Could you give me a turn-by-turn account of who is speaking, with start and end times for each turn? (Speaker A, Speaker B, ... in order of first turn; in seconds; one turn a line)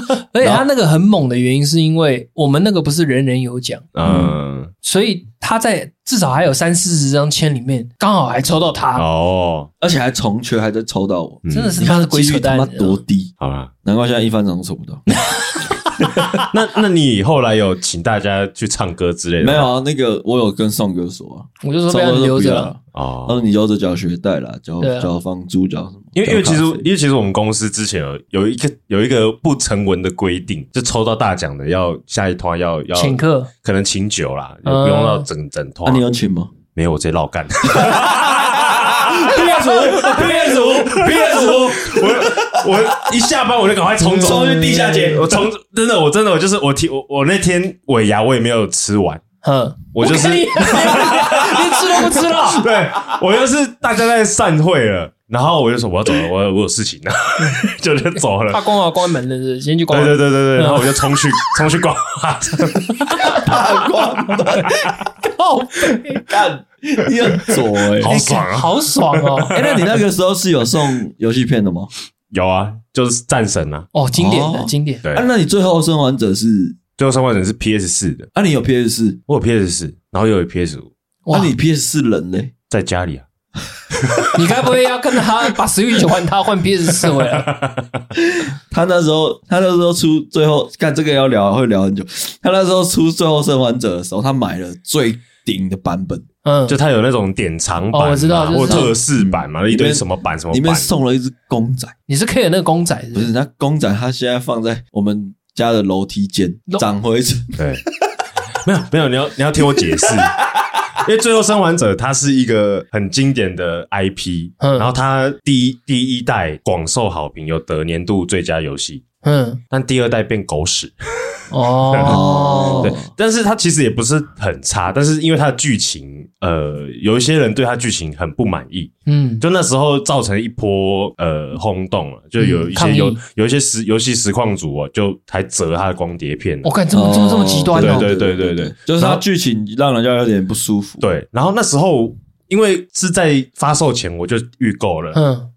Speaker A: 0.3-3.9
Speaker B: 3.9-4.7
Speaker C: 4.0-4.3
Speaker A: 4.8-9.1
Speaker B: 8.9-9.7
Speaker C: 9.8-13.3
Speaker B: 11.4-11.8
Speaker A: 11.5-13.0
Speaker B: 13.4-13.7
Speaker C: 13.8-15.0
Speaker A: 15.2-15.8
Speaker C: 16.0-16.4
Speaker B: 16.3-19.7
Speaker C: 19.4-26.8
Speaker A: 21.6-22.7
Speaker B: 22.9-23.4
Speaker A: 24.8-25.1
Speaker B: 26.1-36.0
Speaker A: 33.0-33.5
Speaker A: 34.6-35.3
Speaker C: 35.8-36.5
Speaker B: 36.7-49.2
Speaker C: 37.7-42.9
Speaker A: 39.2-41.4
Speaker C: 44.0-45.5
Speaker A: 44.2-45.0
Speaker A: 49.4-52.7
Speaker B: 49.9-58.6
Speaker C: 50.8-51.4
Speaker A: 58.5-61.2
Speaker B: 59.9-63.5
Speaker A: 63.1-63.6
Speaker C: 63.2-65.0
Speaker A: 64.5-66.2
Speaker C: 66.1-68.2
Speaker B: 67.1-70.0
Speaker A: 68.0-69.5
Speaker C: 69.5-71.9
Speaker B: 72.3-73.9
Speaker A: 73.9-75.0
Speaker C: 74.1-76.8
Speaker B: 77.0-78.3
Speaker C: 78.3-79.2
Speaker B: 79.3-80.9
Speaker A: 81.2-81.5
Speaker C: 81.3-82.5
Speaker B: 82.7-83.2
Speaker B: 84.0-84.3
Speaker A: 84.3-87.5
Speaker B: 87.0-88.0
Speaker C: 88.2-96.2
Speaker A: 96.4-96.8
Speaker B: 96.7-100.9
Speaker A: 97.9-98.9
Speaker C: 98.5-101.9
Speaker A: 102.1-103.3
Speaker C: 103.1-107.6
Speaker B: 107.6-107.8
Speaker B: 108.6-110.4
Speaker C: 109.8-110.2
Speaker B: 110.9-119.0
Speaker A: 114.6-114.9
Speaker A: 119.2-119.6
Speaker B: 119.7-122.2
Speaker A: 121.5-122.9
Speaker C: 122.0-123.1
Speaker B: 122.8-136.7
Speaker A: 129.1-129.4
Speaker A: 132.4-133.2
Speaker A: 136.6-138.1
Speaker C: 136.9-141.0
Speaker B: 137.8-139.2
Speaker B: 141.0-145.2
Speaker A: 145.1-145.5